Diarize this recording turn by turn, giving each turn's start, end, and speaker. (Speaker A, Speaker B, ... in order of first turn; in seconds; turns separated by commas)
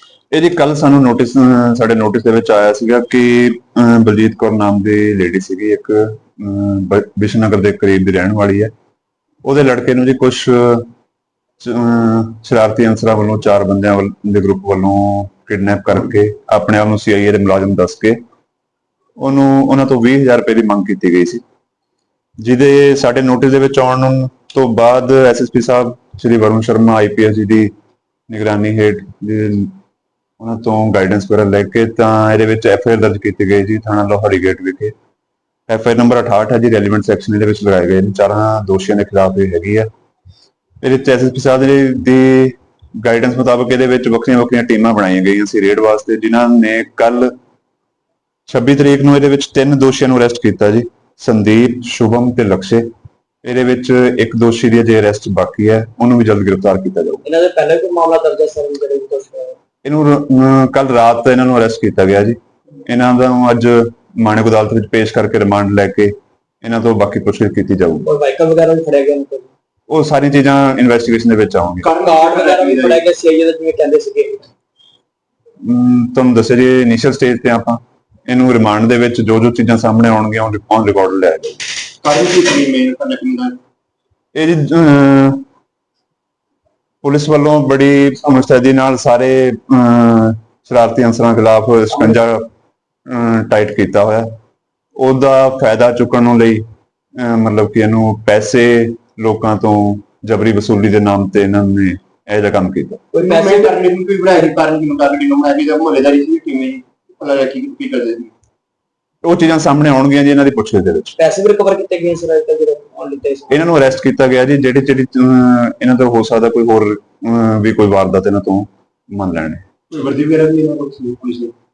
Speaker A: 0.3-8.7, Speaker A: 9.4-10.9, Speaker A: 11.6-18.2, Speaker A: 19.2-21.4, Speaker A: 22.4-27.7, Speaker A: 28.3-29.8, Speaker A: 30.4-34.9, Speaker A: 35.7-39.9, Speaker A: 40.8-47.3, Speaker A: 48.5-52.9, Speaker A: 53.4-57.2, Speaker B: 57.2-59.6, Speaker A: 59.8-68.1, Speaker B: 68.0-69.5, Speaker A: 69.9-71.9, Speaker C: 71.8-73.0, Speaker B: 72.0-74.5, Speaker A: 75.6-81.6, Speaker C: 82.0-83.6, Speaker A: 84.3-85.4, Speaker A: 87.0-92.5, Speaker A: 93.1-94.3, Speaker A: 95.0-96.7, Speaker A: 97.2-103.0, Speaker B: 103.1-103.8, Speaker C: 103.2-108.3, Speaker A: 109.2-111.2, Speaker B: 111.2-113.6, Speaker A: 113.5-119.6, Speaker C: 119.9-121.5